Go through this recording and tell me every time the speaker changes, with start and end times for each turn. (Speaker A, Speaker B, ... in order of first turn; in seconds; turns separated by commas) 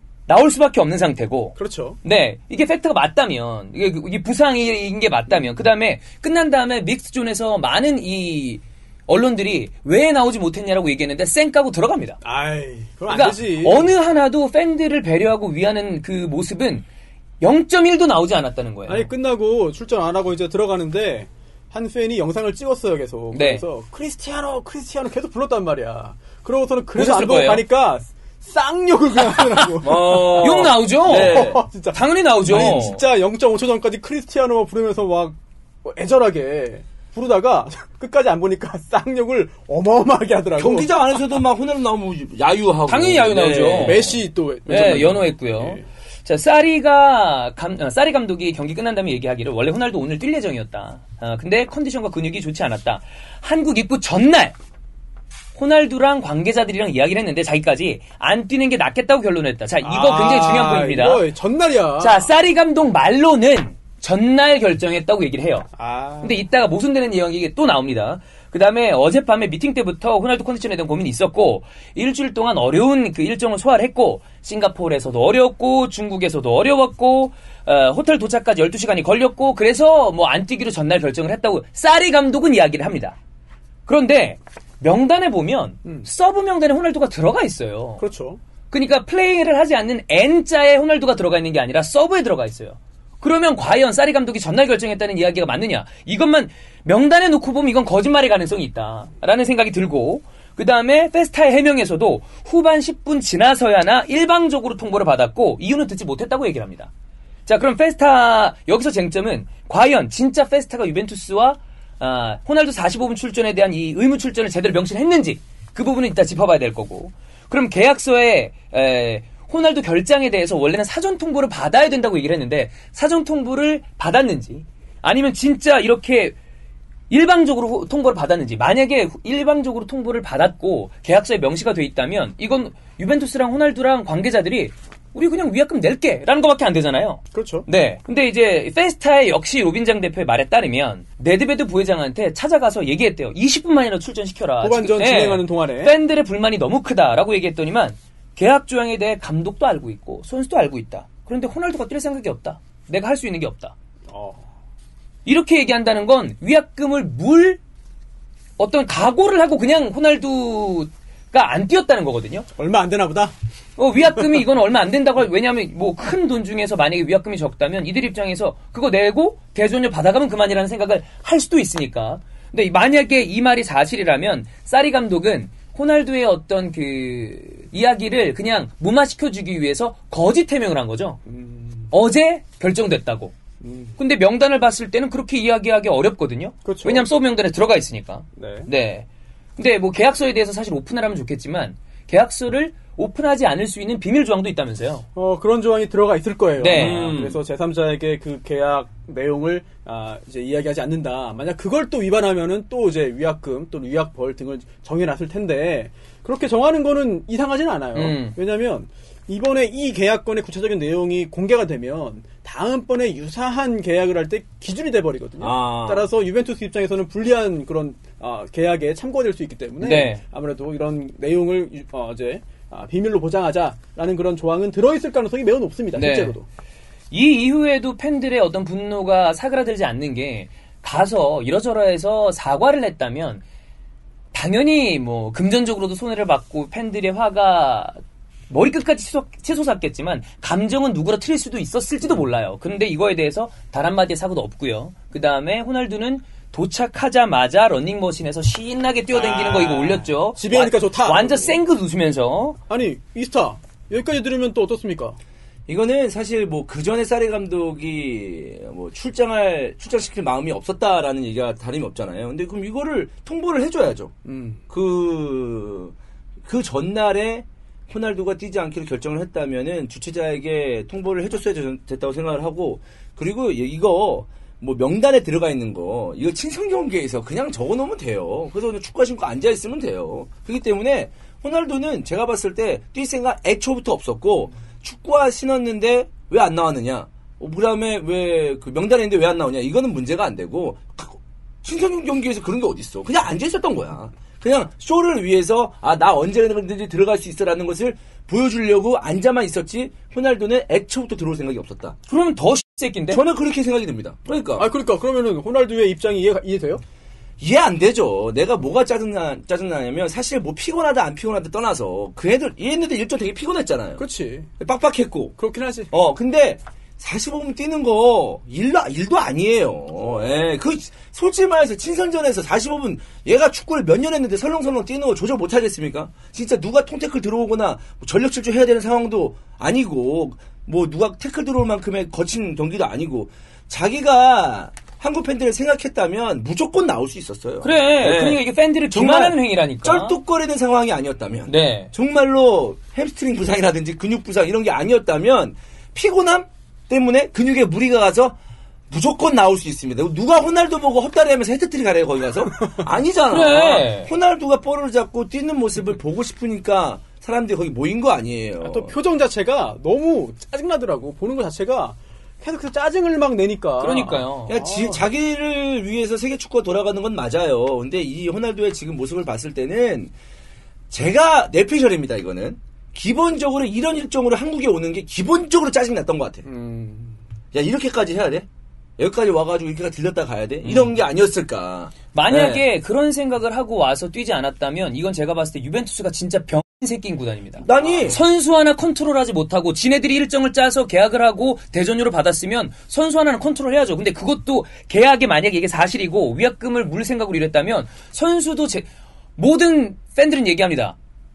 Speaker A: 0.3-12.2, Speaker B: 1.6-2.0, Speaker B: 12.2-13.9, Speaker A: 13.1-16.9, Speaker A: 17.4-19.1, Speaker B: 18.9-41.4, Speaker A: 23.3-23.6, Speaker A: 26.9-27.6, Speaker A: 29.5-33.0, Speaker C: 29.8-31.6, Speaker C: 32.5-32.8, Speaker C: 40.6-44.2, Speaker A: 42.9-44.1, Speaker B: 43.7-45.8, Speaker A: 44.7-54.5, Speaker C: 44.7-45.1, Speaker A: 55.5-61.2, Speaker B: 59.8-62.3, Speaker A: 62.0-65.7, Speaker B: 65.8-66.4, Speaker A: 66.2-83.2, Speaker A: 83.9-88.0, Speaker B: 88.0-88.4, Speaker A: 88.7-106.9, Speaker A: 107.5-126.3, Speaker A: 127.1-153.7, Speaker B: 137.3-137.7, Speaker B: 144.6-145.9, Speaker B: 154.1-154.4, Speaker A: 155.2-157.6, Speaker A: 158.6-162.5, Speaker B: 162.5-163.3, Speaker A: 163.8-181.2, Speaker B: 181.3-181.9, Speaker A: 181.9-183.3, Speaker B: 183.6-183.9, Speaker A: 184.0-195.0, Speaker B: 186.6-187.1, Speaker B: 188.3-188.7, Speaker B: 195.1-226.4, Speaker A: 196.6-197.2, Speaker C: 196.7-197.4, Speaker A: 207.9-208.3, Speaker C: 215.4-216.1, Speaker A: 219.8-220.2, Speaker A: 225.9-226.3, Speaker A: 227.1-233.4, Speaker A: 234.3-238.0, Speaker A: 238.5-252.6, Speaker B: 249.1-251.6, Speaker B: 252.7-255.2, Speaker C: 255.7-264.1, Speaker B: 264.2-264.6, Speaker C: 264.7-301.9, Speaker A: 302.1-303.2, Speaker C: 303.1-304.7, Speaker B: 304.6-306.8, Speaker C: 307.4-314.0, Speaker B: 314.0-314.5, Speaker C: 314.6-315.4, Speaker B: 315.4-315.9, Speaker C: 315.9-348.3, Speaker A: 337.6-340.1, Speaker A: 341.5-341.9, Speaker C: 348.9-358.9, Speaker A: 353.3-354.1, Speaker B: 358.6-365.0, Speaker A: 363.8-364.6, Speaker C: 364.5-370.1, Speaker C: 370.9-376.5, Speaker B: 376.4-377.2, Speaker C: 377.5-378.4, Speaker C: 379.0-382.6, Speaker A: 380.6-380.9, Speaker A: 382.1-400.9, Speaker C: 387.6-388.2